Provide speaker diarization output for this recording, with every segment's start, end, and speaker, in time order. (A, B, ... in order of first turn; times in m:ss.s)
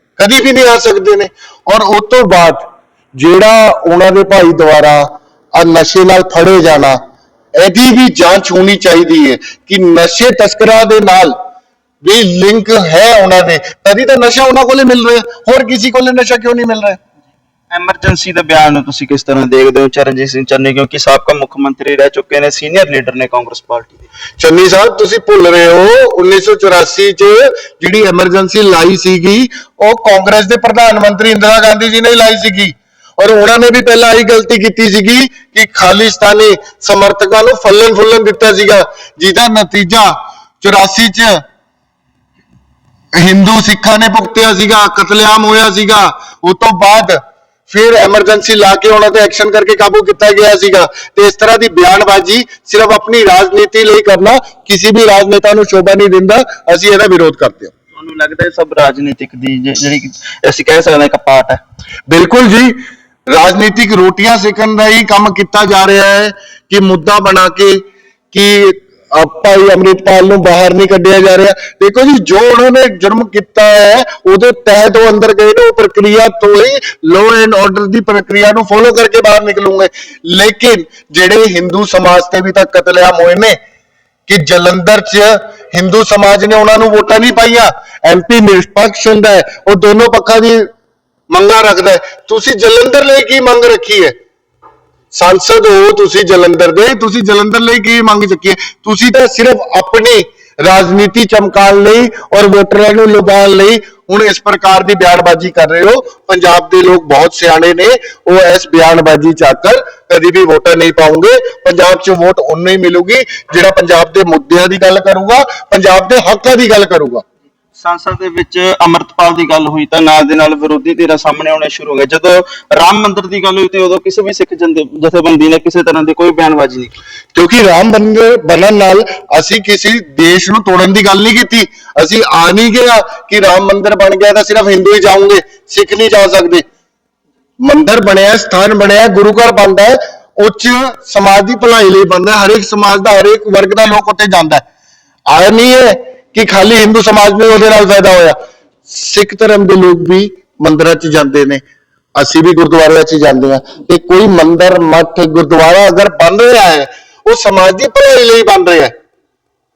0:00.2-0:07.0 A
0:07.6-0:11.4 A
0:12.0-0:17.0 A
0:17.7-0:24.0 B
0:24.4-0:41.4 A
0:43.2-0:57.7 A
0:57.9-1:01.6 B
1:02.1-1:02.8 A
1:03.3-1:23.6 A
1:24.3-1:30.7 A
1:31.3-1:34.1 A
1:35.1-1:57.2 A
1:57.8-2:06.9 B
2:07.3-2:16.6 A
2:17.6-2:24.6 A
2:25.3-2:31.6 A
2:32.2-2:38.9 A